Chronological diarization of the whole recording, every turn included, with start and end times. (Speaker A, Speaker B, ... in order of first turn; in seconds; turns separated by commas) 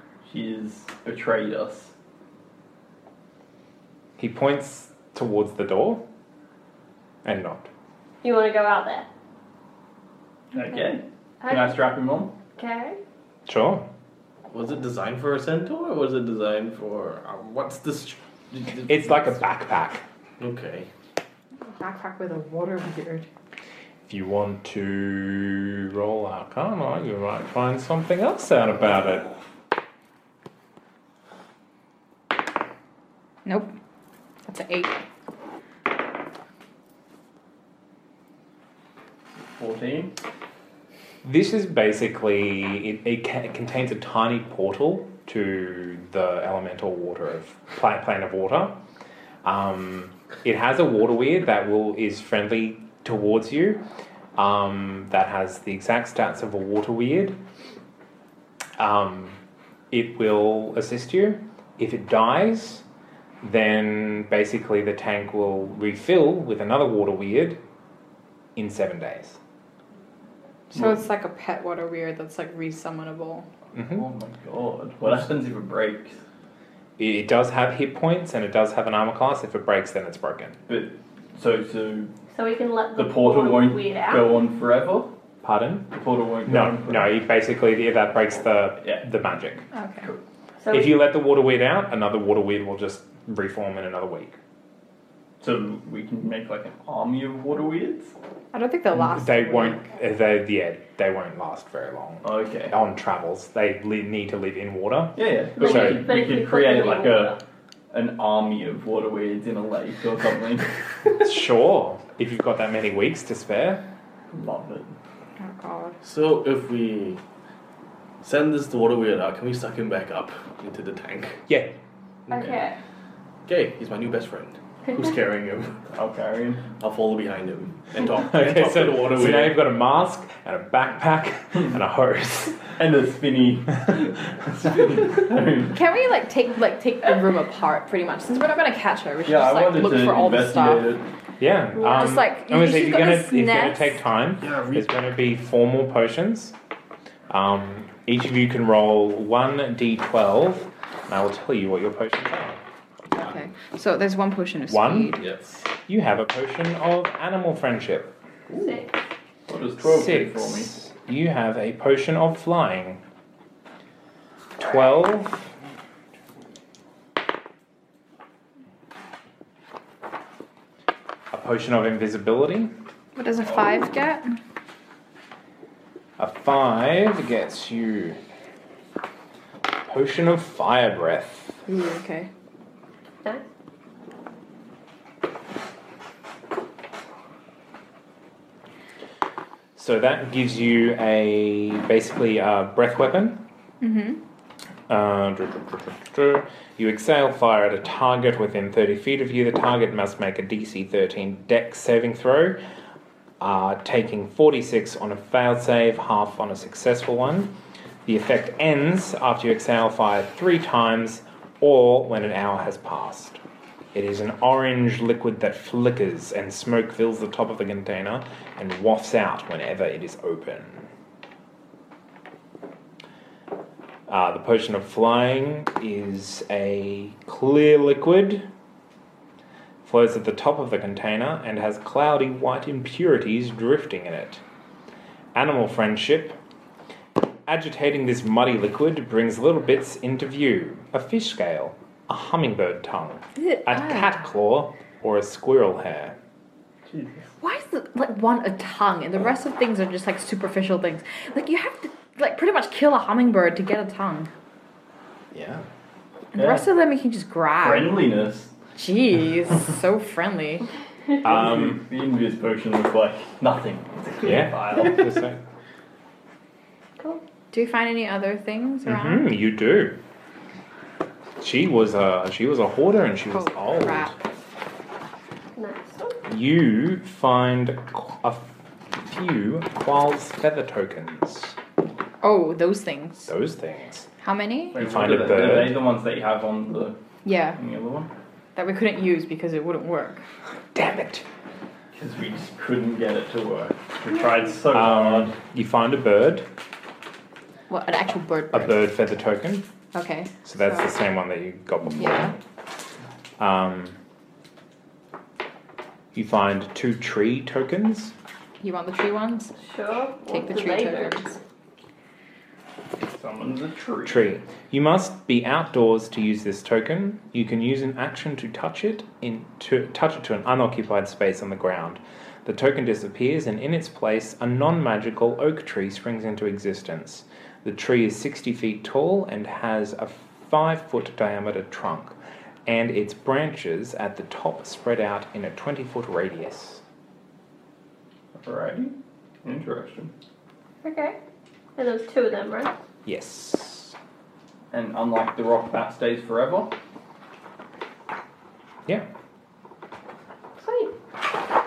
Speaker A: 0.2-1.9, Speaker B: 4.2-6.0, Speaker B: 7.2-7.7, Speaker C: 8.2-9.1, Speaker A: 10.5-12.3, Speaker C: 11.4-11.8, Speaker C: 12.6-13.0, Speaker B: 13.5-13.9, Speaker D: 14.5-19.1, Speaker B: 18.9-20.0, Speaker D: 20.4-20.9, Speaker E: 21.7-23.3, Speaker B: 24.1-29.3, Speaker E: 33.5-33.7, Speaker E: 34.4-35.0, Speaker A: 39.6-40.1, Speaker B: 41.2-48.8, Speaker B: 49.4-53.8, Speaker B: 54.4-57.4, Speaker B: 58.8-59.4, Speaker B: 59.9-62.8, Speaker B: 63.4-67.6, Speaker B: 68.6-69.4, Speaker E: 70.7-73.5, Speaker B: 73.7-74.0, Speaker A: 73.8-76.2, Speaker B: 77.0-80.6, Speaker A: 80.7-82.1, Speaker C: 82.3-84.4, Speaker A: 83.0-85.1, Speaker B: 85.4-85.9, Speaker A: 85.9-87.2, Speaker B: 86.5-89.7, Speaker E: 89.7-90.1, Speaker C: 90.6-91.0, Speaker B: 90.7-94.4, Speaker A: 95.4-98.1, Speaker E: 98.5-99.9, Speaker B: 99.0-106.1, Speaker A: 102.2-102.8, Speaker A: 105.2-107.4, Speaker C: 105.6-107.4, Speaker A: 107.9-110.7, Speaker B: 111.1-113.8, Speaker A: 114.3-114.9, Speaker E: 115.4-116.0, Speaker D: 116.0-117.2, Speaker D: 118.2-121.4, Speaker B: 121.5-121.8, Speaker D: 122.3-122.5, Speaker C: 122.3-122.8, Speaker D: 123.5-125.8, Speaker A: 125.9-126.6, Speaker D: 126.8-129.6, Speaker B: 128.2-132.7, Speaker A: 132.8-135.8, Speaker E: 135.7-140.9, Speaker A: 139.2-141.1, Speaker B: 141.4-146.6, Speaker E: 141.8-144.0, Speaker D: 144.4-144.9, Speaker B: 147.3-152.6, Speaker E: 153.1-155.2, Speaker D: 153.2-153.5, Speaker B: 154.7-155.2, Speaker D: 155.2-155.5, Speaker B: 155.9-158.2, Speaker C: 158.6-159.0, Speaker A: 159.5-160.7, Speaker B: 159.8-163.0, Speaker B: 164.6-165.5, Speaker B: 171.3-172.7, Speaker E: 173.2-174.4, Speaker B: 176.2-178.2, Speaker B: 179.8-181.6, Speaker E: 181.7-182.3, Speaker B: 189.8-193.4, Speaker E: 193.8-194.2, Speaker B: 194.9-202.6, Speaker B: 203.4-207.5, Speaker B: 208.1-213.4, Speaker B: 213.9-220.9, Speaker B: 224.1-228.5, Speaker B: 229.8-234.4, Speaker B: 235.3-236.4, Speaker B: 237.5-246.2, Speaker E: 243.4-244.3, Speaker A: 246.9-247.3, Speaker E: 247.4-254.3, Speaker B: 255.3-255.7, Speaker E: 256.3-258.1, Speaker A: 256.4-256.7, Speaker A: 257.6-258.5, Speaker E: 258.8-260.7, Speaker B: 261.2-261.8, Speaker A: 261.2-265.2, Speaker B: 264.2-265.4, Speaker C: 267.0-267.2, Speaker E: 267.5-269.3, Speaker B: 268.9-270.0, Speaker B: 271.4-274.1, Speaker E: 273.3-274.1, Speaker C: 275.6-276.2, Speaker B: 276.3-281.6, Speaker E: 282.2-283.3, Speaker B: 283.2-284.1, Speaker E: 284.2-284.8, Speaker A: 284.8-287.0, Speaker B: 284.8-285.8, Speaker E: 287.2-287.6, Speaker A: 287.6-288.1, Speaker E: 288.6-290.2, Speaker B: 290.7-291.2, Speaker A: 291.9-295.4, Speaker B: 294.7-296.5, Speaker E: 297.7-298.9, Speaker B: 298.5-299.6, Speaker E: 299.9-300.9, Speaker B: 300.4-302.4, Speaker E: 302.0-302.4, Speaker B: 303.4-304.0, Speaker B: 306.1-308.1, Speaker E: 308.6-309.5, Speaker C: 309.6-311.3, Speaker E: 310.3-311.4, Speaker A: 313.1-314.3, Speaker B: 314.1-336.8, Speaker A: 338.4-340.1, Speaker E: 340.8-341.2, Speaker C: 341.8-342.7, Speaker B: 343.1-343.9, Speaker A: 344.7-346.7, Speaker C: 350.6-350.9